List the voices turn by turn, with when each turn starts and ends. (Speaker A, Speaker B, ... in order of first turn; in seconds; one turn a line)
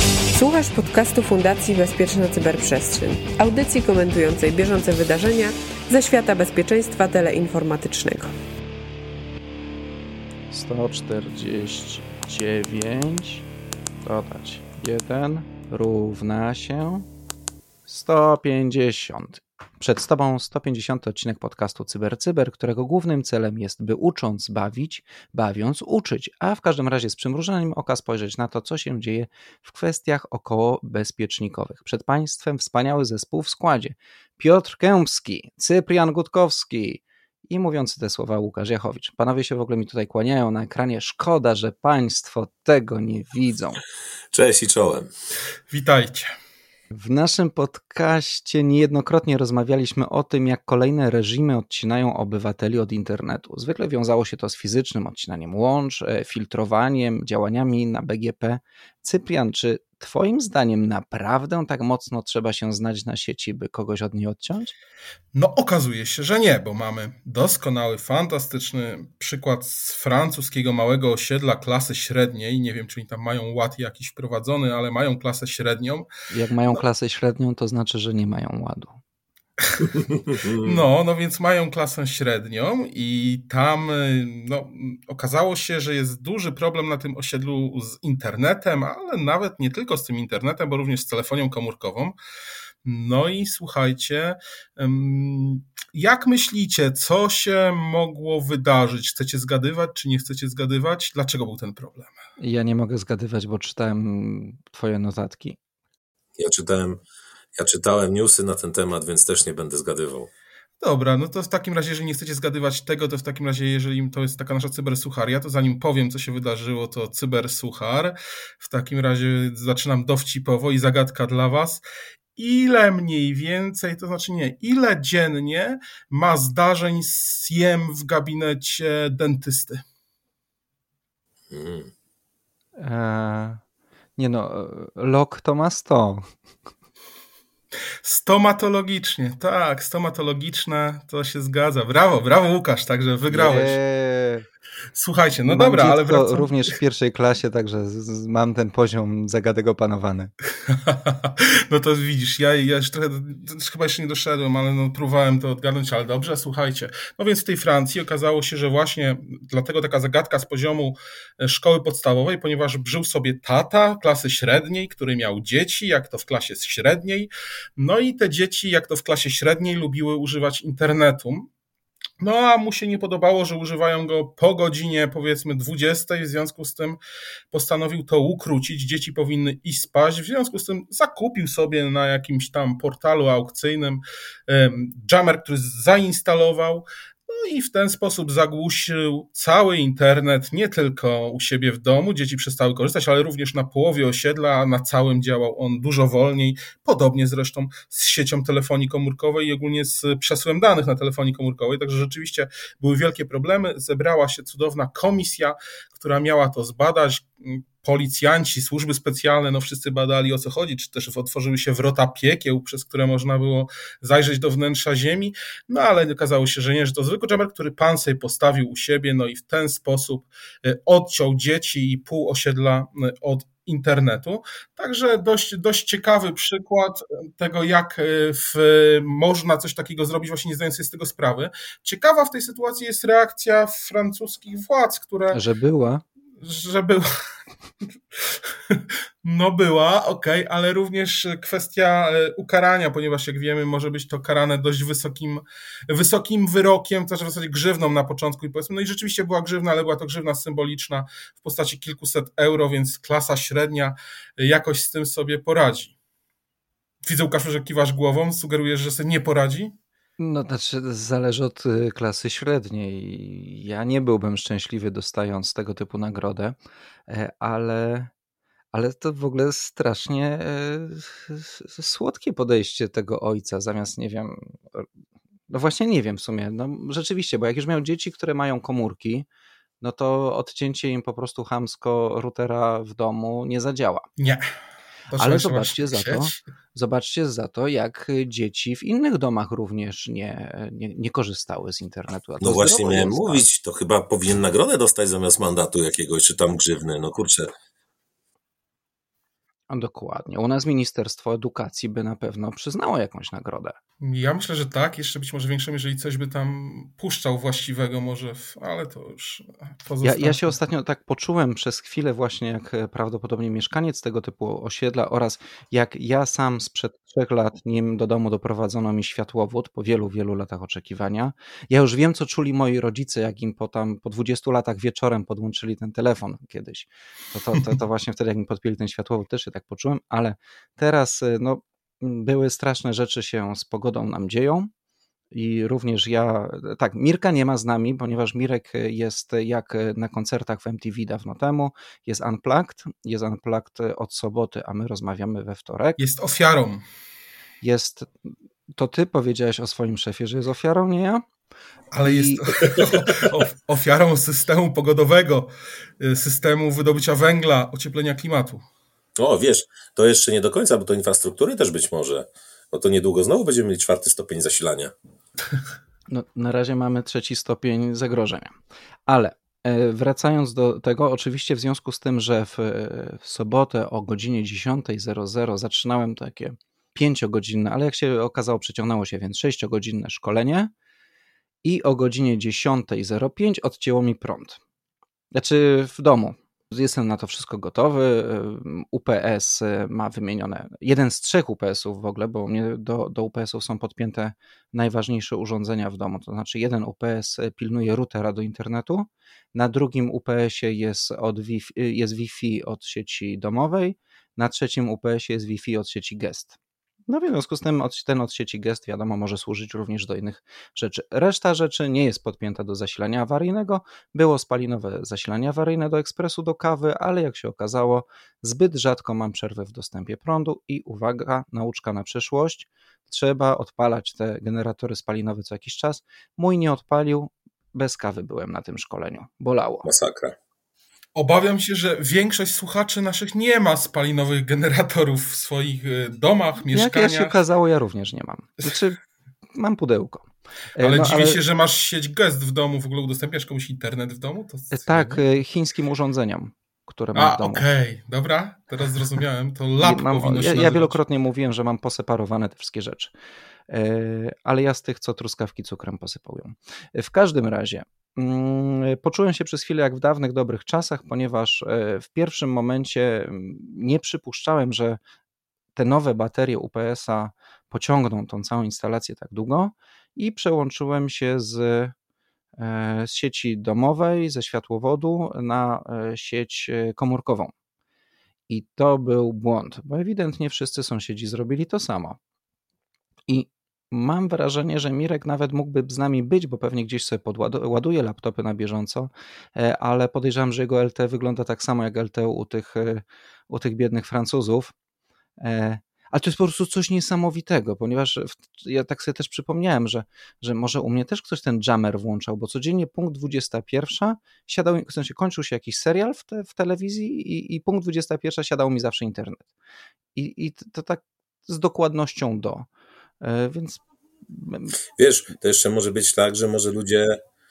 Speaker A: 0.3-8.3
Speaker B: 10.5-13.4
Speaker B: 14.0-17.1
Speaker B: 17.9-43.8
Speaker C: 44.3-45.1
Speaker D: 45.7-46.3
Speaker B: 46.9-64.7
Speaker D: 65.3-76.1
Speaker B: 76.3-79.0
Speaker D: 79.7-79.9
Speaker C: 80.3-80.7
Speaker D: 80.6-92.2
Speaker D: 92.8-102.1
Speaker B: 102.4-105.6
Speaker C: 106.4-107.0
Speaker C: 107.6-110.3
Speaker D: 110.8-121.8
Speaker D: 122.3-129.8
Speaker C: 131.5-131.9
Speaker B: 132.8-133.6
Speaker B: 134.2-136.3
Speaker D: 138.0-143.8
Speaker B: 143.3-144.4
Speaker D: 144.9-146.5
Speaker B: 145.5-150.3
Speaker D: 150.7-171.5
Speaker D: 172.2-177.0
Speaker D: 177.5-235.4
Speaker B: 235.3-236.0
Speaker D: 236.4-237.2
Speaker D: 238.2-255.9
Speaker D: 257.0-259.7
Speaker B: 260.2-268.1
Speaker B: 268.7-274.9
Speaker B: 275.5-279.2
Speaker B: 279.8-284.0
Speaker D: 284.2-284.4
Speaker D: 285.1-286.4
Speaker B: 285.2-293.4
Speaker C: 292.4-297.5
Speaker B: 299.7-303.8
Speaker D: 304.0-310.5
Speaker B: 310.0-334.7
Speaker B: 335.3-346.0
Speaker D: 346.0-346.8
Speaker B: 347.6-351.2
Speaker D: 351.9-358.6
Speaker B: 352.0-352.4
Speaker C: 359.2-364.9
Speaker B: 366.1-380.7
Speaker B: 381.6-384.6
Speaker B: 385.3-406.6
Speaker B: 407.1-429.9
Speaker C: 429.8-430.4
Speaker D: 431.1-437.4
Speaker B: 436.7-439.0
Speaker B: 439.5-441.4
Speaker D: 440.8-445.2
Speaker B: 444.7-447.6
Speaker D: 447.1-451.0
Speaker B: 449.8-453.1
Speaker B: 453.7-465.0
Speaker B: 465.7-471.9
Speaker B: 472.6-477.5
Speaker B: 478.5-482.2
Speaker B: 483.3-494.7
Speaker B: 495.4-509.5
Speaker B: 510.1-512.7
Speaker B: 513.2-514.8
Speaker C: 515.0-517.2